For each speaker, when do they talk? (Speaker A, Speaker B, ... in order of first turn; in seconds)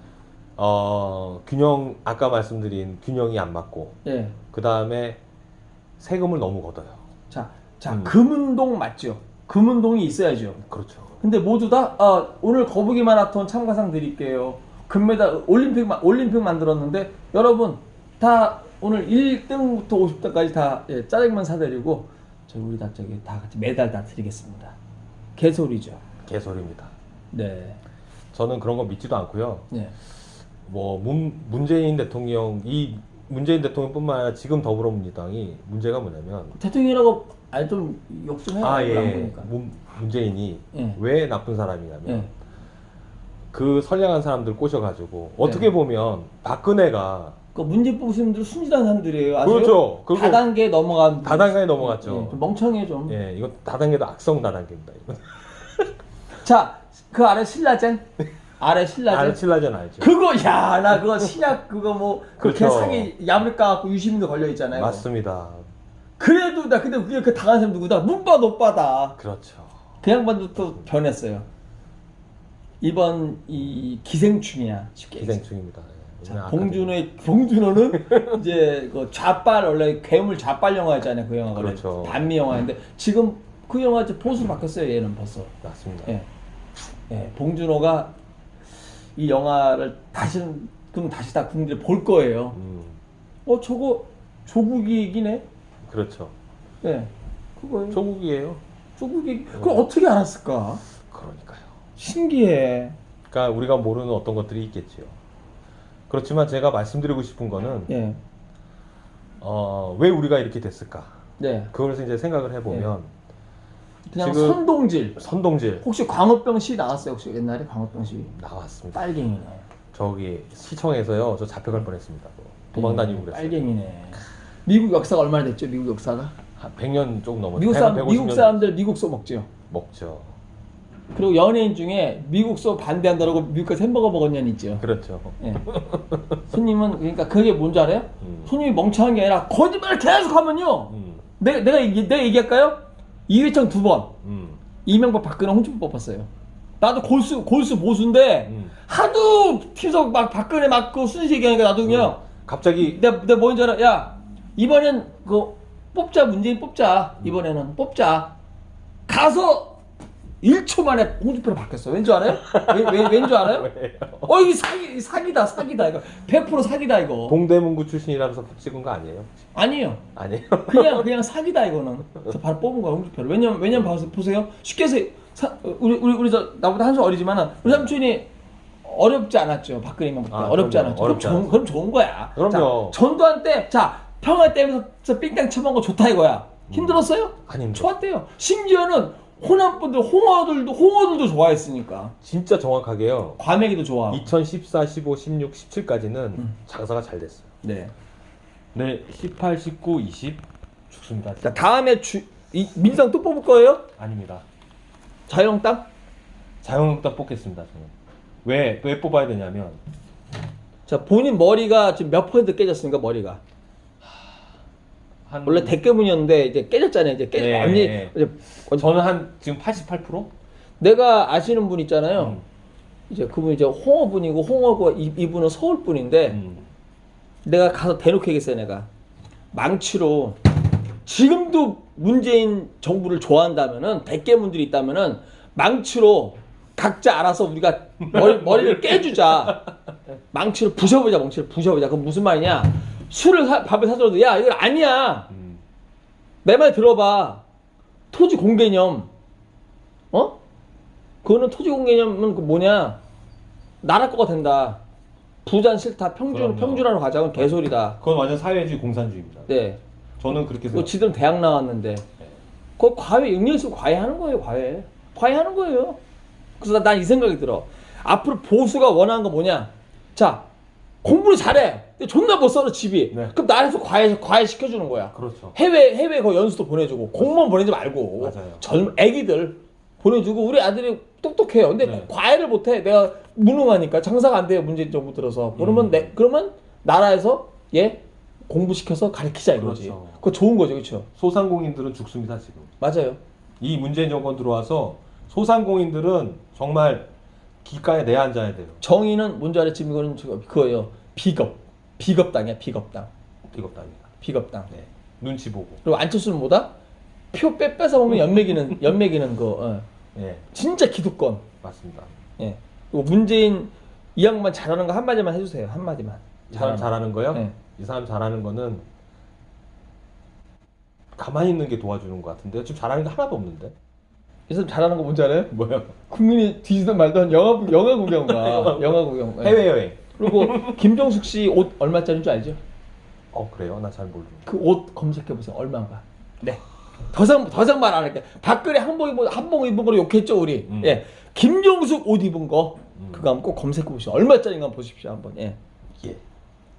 Speaker A: 0.6-4.0, 4.5-5.2, 6.0-7.0, 7.9-8.1, 10.6-11.2, 26.2-26.9, 28.3-29.7, 30.6-36.6, 38.6-42.3, 43.5-47.4, 49.4-50.5, 51.2-52.4, 53.1-55.8, 59.1-60.1, 62.4-63.1, 64.7-65.6, 69.2-69.8, 75.2-77.0, 78.0-78.4, 81.5-82.2, 85.6-86.2, 92.5-93.0, 95.8-96.3, 97.9-98.6, 99.5-99.8, 101.0-101.7, 103.3-105.2, 106.1-107.9, 109.4-111.2, 111.7-113.1, 114.2-114.6, 115.2-115.8, 118.3-119.0, 119.9-123.7, 126.6-128.6, 129.7-130.3, 134.8-136.4, 138.2-138.5, 140.9-141.2, 144.2-144.6, 148.4-148.7, 151.8-153.0, 162.3-164.3, 167.3-169.3, 170.1-171.1, 173.7-174.0, 177.6-177.9, 180.3-181.6, 182.3-183.0, 186.7-187.9, 192.2-193.4, 194.1-197.5, 198.7-201.6, 204.0-204.4, 206.6-207.9, 208.4-209.8, 215.3-215.8, 217.3-218.2, 218.7-220.3, 222.2-222.4, 226.3-226.7, 238.0-239.7, 245.3-245.6, 256.3-259.5, 260.2-261.0, 275.1-275.6, 278.2-278.6, 281.8-282.1, 285.5-286.1, 289.5-290.2, 291.2-292.7, 293.6-297.1, 297.6-298.8, 303.5-304.1, 304.7-305.8, 310.1-310.4, 311.6-312.1, 316.5-318.9, 321.1-323.7, 325.5-325.9, 328.2-330.7, 333.3-334.4, 340.7-341.0, 342.9-343.3
Speaker B: 4.0-4.4, 7.3-10.6, 11.2-24.8, 25.4-26.0, 27.3-27.8, 36.6-39.5, 40.7-41.0, 45.4-45.7, 47.5-53.1, 56.4-58.1, 58.6-59.4, 60.0-65.0, 66.2-69.2, 70.0-71.5, 72.8-75.5, 76.2-85.5, 87.1-88.1, 89.2-92.6, 93.5-95.4, 96.8-98.0, 99.0-100.8, 102.0-103.0, 107.9-108.2, 111.4-111.7, 114.1-115.2, 115.8-118.3, 118.9-119.6, 122.7-126.4, 127.5-129.5, 131.1-134.8, 135.4-135.7, 136.4-144.1, 144.8-146.3, 146.8-152.2, 152.8-158.3, 159.1-159.8, 160.4-163.7, 164.2-167.4, 169.5-170.0, 170.7-178.3, 178.8-192.1, 193.4-194.3, 197.6-197.9, 201.4-203.9, 205.3-205.9, 210.9-213.4, 215.4-218.9, 220.8-222.4, 223.1-226.4, 227.4-228.9, 229.5-239.6, 240.3-245.3, 246.4-247.4, 248.1-249.1, 250.1-250.4, 251.2-253.0, 253.8-254.8, 255.4-258.0, 259.5-259.8, 260.7-262.1, 262.8-266.0, 266.6-270.4, 271.0-291.1, 292.8-293.2, 298.8-303.1, 304.2-304.7, 305.8-306.7, 307.3-309.9, 310.5-311.5, 312.4-317.6, 324.5-332.6, 334.4-345.6